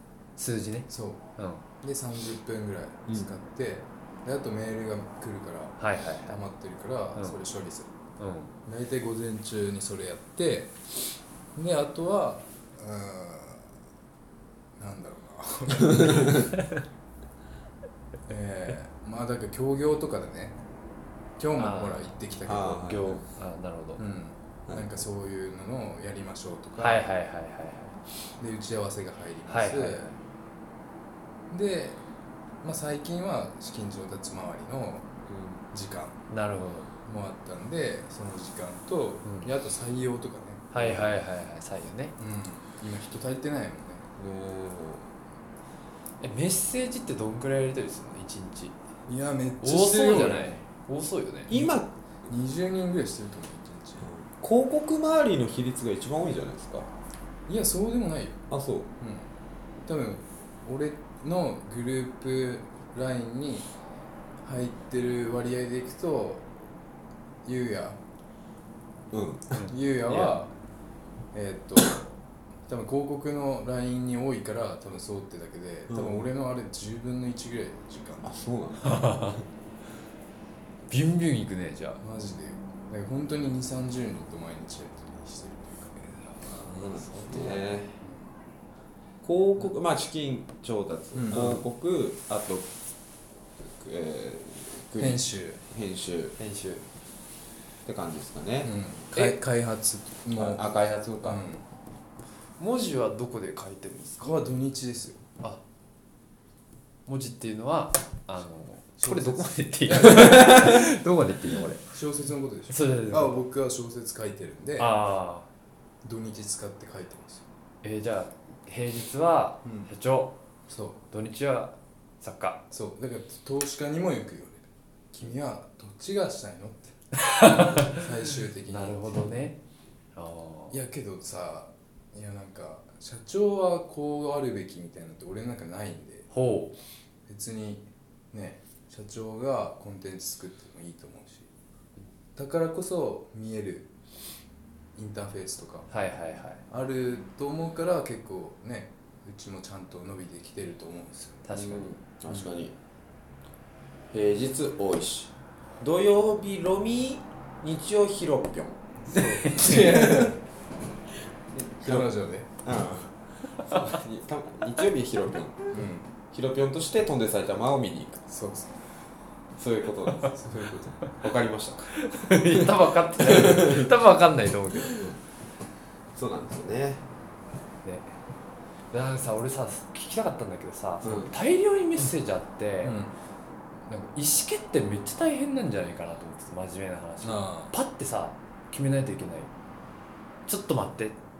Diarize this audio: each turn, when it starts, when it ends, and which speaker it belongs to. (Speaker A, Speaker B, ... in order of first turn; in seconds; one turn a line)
Speaker A: 0.4-1.6
Speaker B: 0.9-1.2
Speaker B: 1.8-7.9
Speaker A: 5.8-6.3
Speaker A: 8.2-8.5
Speaker B: 8.7-10.8
Speaker B: 11.5-13.7
Speaker B: 14.8-16.5
Speaker B: 18.3-20.6
Speaker B: 21.4-22.9
Speaker A: 21.6-22.1
Speaker C: 22.4-23.2
Speaker A: 22.8-24.0
Speaker B: 24.0-27.0
Speaker C: 24.7-25.0
Speaker A: 26.8-27.9
Speaker B: 28.4-30.1
Speaker A: 29.5-30.2
Speaker B: 31.5-32.0
Speaker B: 32.6-35.1
Speaker C: 35.3-35.6
Speaker B: 35.7-36.2
Speaker A: 36.3-36.9
Speaker B: 37.0-40.7
Speaker A: 40.7-42.1
Speaker C: 40.8-41.1
Speaker B: 42.2-44.1
Speaker C: 44.2-45.1
Speaker A: 46.2-48.7
Speaker B: 49.1-50.6
Speaker A: 49.6-51.5
Speaker C: 51.5-51.9
Speaker B: 52.3-54.0
Speaker C: 54.0-56.9
Speaker B: 57.5-58.4
Speaker C: 58.5-58.9
Speaker B: 59.0-59.3
Speaker B: 59.8-63.7
Speaker B: 64.4-66.5
Speaker B: 67.4-68.0
Speaker C: 69.1-69.6
Speaker A: 69.5-70.3
Speaker B: 69.7-70.5
Speaker B: 71.3-78.3
Speaker C: 75.9-76.2
Speaker C: 78.2-79.4
Speaker A: 78.9-79.3
Speaker A: 80.9-82.0
Speaker B: 82.0-86.6
Speaker C: 86.6-88.0
Speaker A: 86.7-87.6
Speaker B: 87.3-88.2
Speaker C: 89.2-92.7
Speaker B: 91.2-91.5
Speaker C: 93.6-96.3
Speaker B: 95.0-95.6
Speaker A: 96.4-96.8
Speaker C: 97.8-98.7
Speaker B: 98.6-100.6
Speaker C: 100.4-101.4
Speaker B: 101.2-101.6
Speaker A: 102.6-104.2
Speaker B: 104.2-105.2
Speaker A: 107.0-111.8
Speaker B: 109.0-110.7
Speaker C: 110.2-110.8
Speaker B: 111.9-115.0
Speaker A: 112.7-113.4
Speaker A: 114.8-115.5
Speaker B: 116.0-117.5
Speaker A: 117.8-120.3
Speaker B: 119.7-119.9
Speaker B: 120.7-121.0
Speaker A: 121.1-122.6
Speaker B: 122.7-126.9
Speaker A: 127.2-128.0
Speaker B: 127.5-129.2
Speaker A: 128.7-129.6
Speaker A: 130.2-130.8
Speaker B: 130.7-136.3
Speaker A: 136.3-136.7
Speaker B: 137.3-141.5
Speaker B: 142.3-143.9
Speaker B: 145.0-145.9
Speaker A: 145.9-146.6
Speaker B: 146.7-151.5
Speaker A: 151.4-151.9
Speaker C: 151.5-152.7
Speaker C: 154.1-158.8
Speaker B: 159.0-160.4
Speaker C: 159.5-160.3
Speaker C: 161.6-162.1
Speaker B: 161.8-162.6
Speaker C: 162.6-165.7
Speaker B: 165.7-166.1
Speaker C: 166.3-168.2
Speaker B: 168.3-168.7
Speaker C: 169.6-170.4
Speaker B: 170.3-171.0
Speaker C: 171.1-171.9
Speaker A: 172.0-175.1
Speaker C: 173.2-173.9
Speaker C: 176.2-177.0
Speaker A: 177.8-178.2
Speaker A: 178.9-183.0
Speaker C: 181.0-181.3
Speaker B: 182.8-183.2
Speaker A: 183.9-189.5
Speaker B: 187.2-187.7
Speaker A: 190.5-191.2